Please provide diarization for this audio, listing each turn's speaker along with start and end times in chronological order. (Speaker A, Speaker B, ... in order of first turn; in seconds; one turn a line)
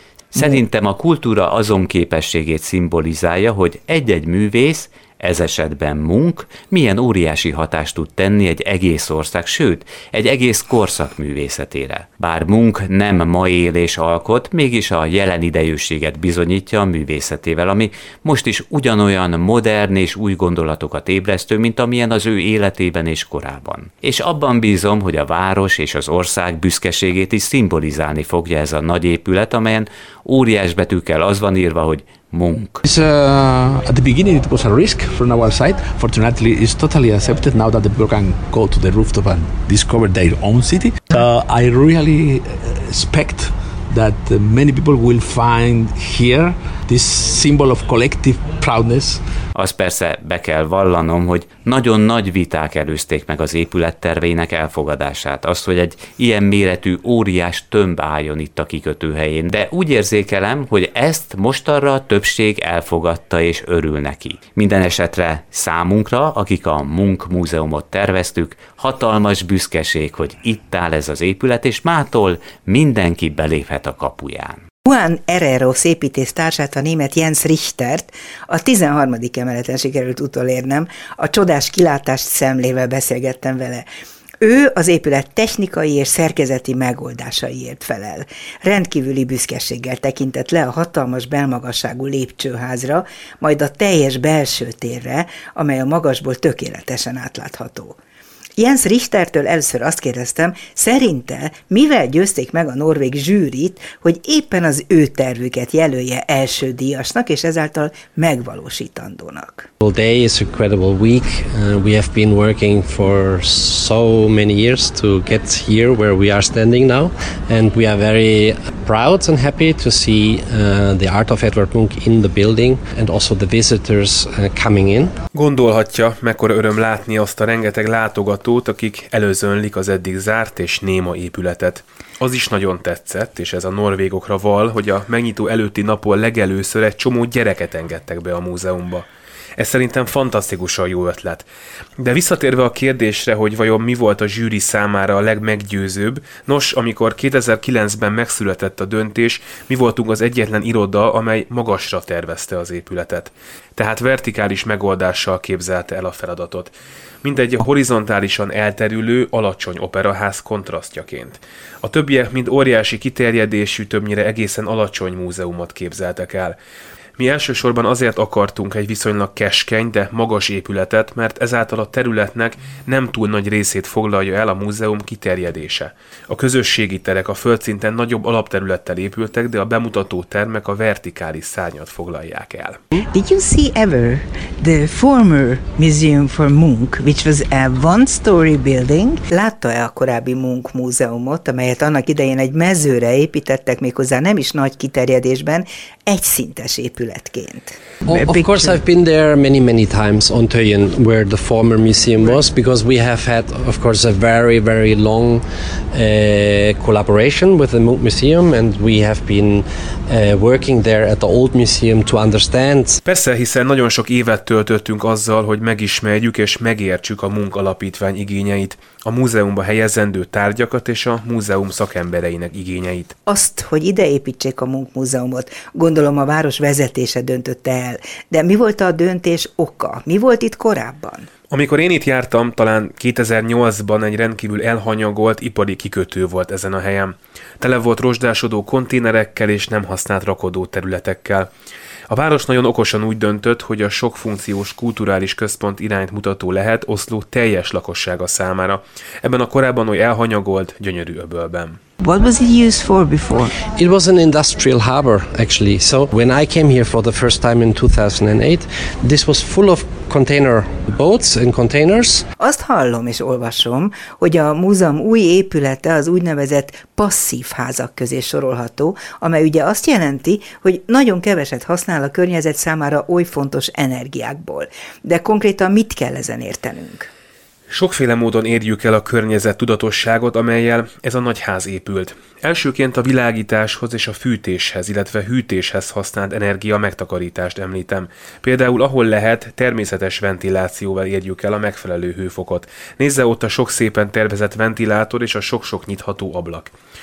Speaker A: 0.3-32.8
Speaker B: 0.4-0.6
Speaker C: 32.8-49.2
Speaker A: 49.5-74.6
Speaker B: 74.8-83.9
Speaker B: 84.4-98.0
Speaker B: 98.6-109.7
Speaker D: 109.8-125.2
Speaker E: 125.3-141.4
Speaker E: 142.0-166.6
Speaker E: 167.2-182.8
Speaker B: 183.1-198.8
Speaker D: 198.1-213.0
Speaker E: 213.1-223.1
Speaker B: 223.3-231.3
Speaker E: 231.5-241.5
Speaker E: 242.1-251.8
Speaker B: 252.0-253.6
Speaker D: 253.7-262.3
Speaker B: 262.4-277.1
Speaker E: 277.7-296.7